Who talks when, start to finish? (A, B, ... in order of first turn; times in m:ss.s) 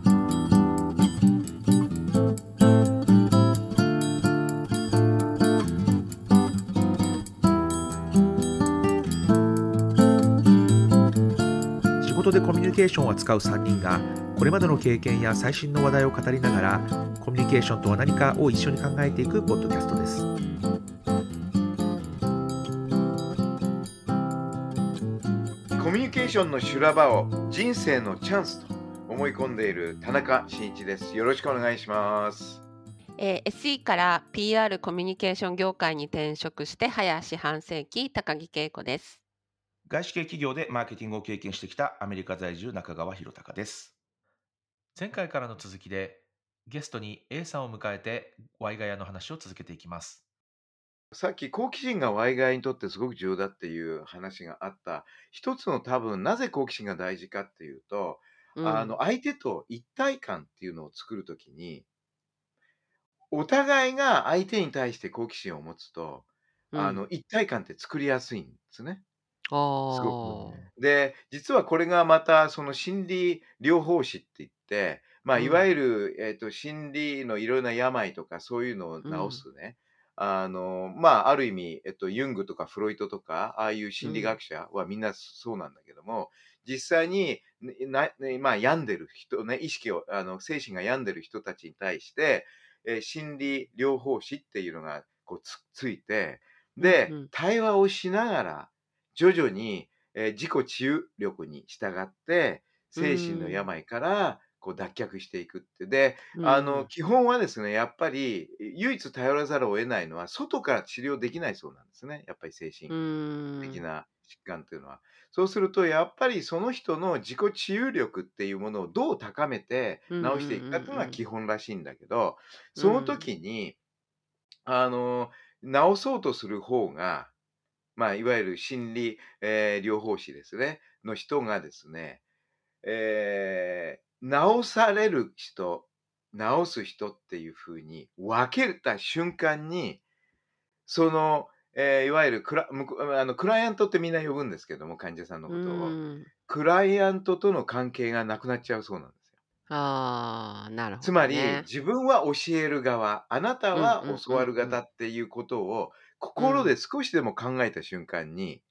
0:12.0-0:20.3 A
0:25.8-0:32.6 B
0:33.2-0:39.2 C
0:39.9-0:43.9 A
0:45.0-0:50.2 A
0:51.1-1:01.8 B
0:58.6-0:59.0 C
1:03.3-1:09.0 B
1:06.7-1:07.0 C
1:09.5-1:10.6 C
1:09.9-1:53.0 B
1:10.2-1:10.7 A
1:15.4-1:15.6 C
1:19.0-1:19.4 C
1:24.0-1:24.4 C
1:36.8-1:37.3 C
1:43.0-1:43.7 C
1:46.4-1:46.9 C
1:52.9-1:53.8 C
1:53.6-2:03.8 B
2:00.1-2:01.2 C
2:02.8-2:03.3 C
2:04.7-2:07.3 B
2:08.0-2:12.2 B
2:12.8-2:20.0 B
2:20.9-2:29.2 B
2:25.5-2:26.3 C
2:29.7-2:31.7 C
2:31.0-2:38.6 B
2:33.7-2:34.8 C
2:36.4-2:36.7 C